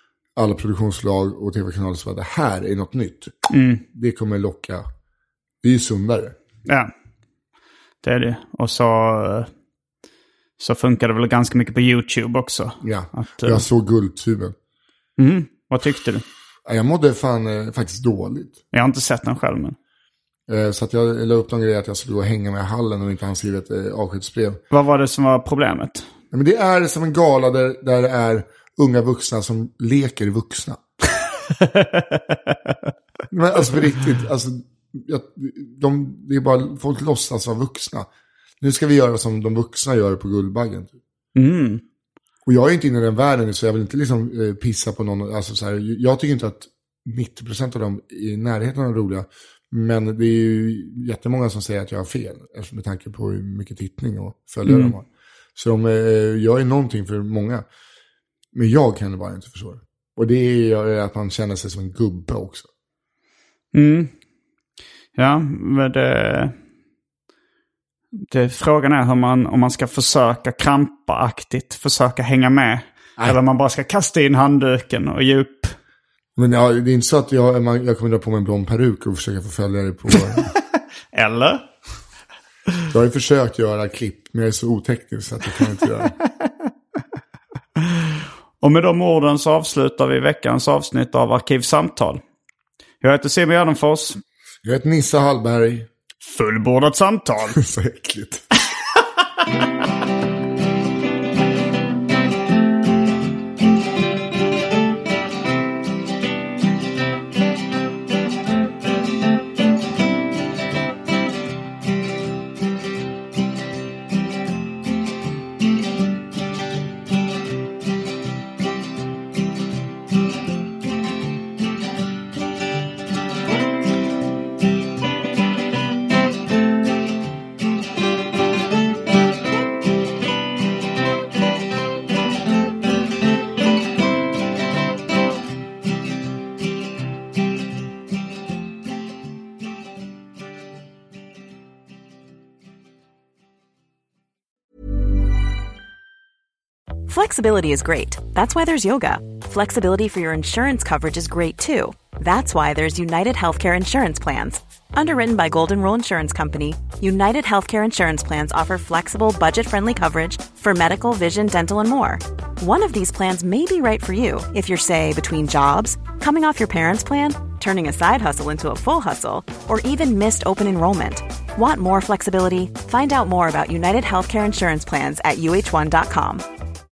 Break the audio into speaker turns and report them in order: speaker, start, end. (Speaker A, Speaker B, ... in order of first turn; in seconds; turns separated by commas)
Speaker A: 0.3-4.8, Speaker B: 3.5-3.8, Speaker A: 5.6-6.3, Speaker B: 6.7-6.9, Speaker B: 8.0-9.5, Speaker B: 10.6-13.7, Speaker A: 12.8-14.5, Speaker B: 15.2-16.2, Speaker A: 16.6-18.6, Speaker B: 18.7-19.8, Speaker A: 20.5-24.6, Speaker B: 24.7-26.1, Speaker A: 26.3-30.8, Speaker B: 31.6-32.7, Speaker A: 33.3-38.1, Speaker A: 38.6-41.0, Speaker B: 41.3-41.8, Speaker A: 42.5-57.6, Speaker B: 54.6-55.0, Speaker A: 58.5-62.7, Speaker B: 63.7-64.1, Speaker B: 65.2-66.5, Speaker B: 68.2-75.8, Speaker A: 76.3-80.5, Speaker B: 81.1-81.6, Speaker A: 82.9-86.1, Speaker B: 88.6-92.2, Speaker B: 93.0-94.2, Speaker A: 94.6-95.9, Speaker B: 96.2-97.6, Speaker A: 97.5-98.4, Speaker C: 147.1-176.4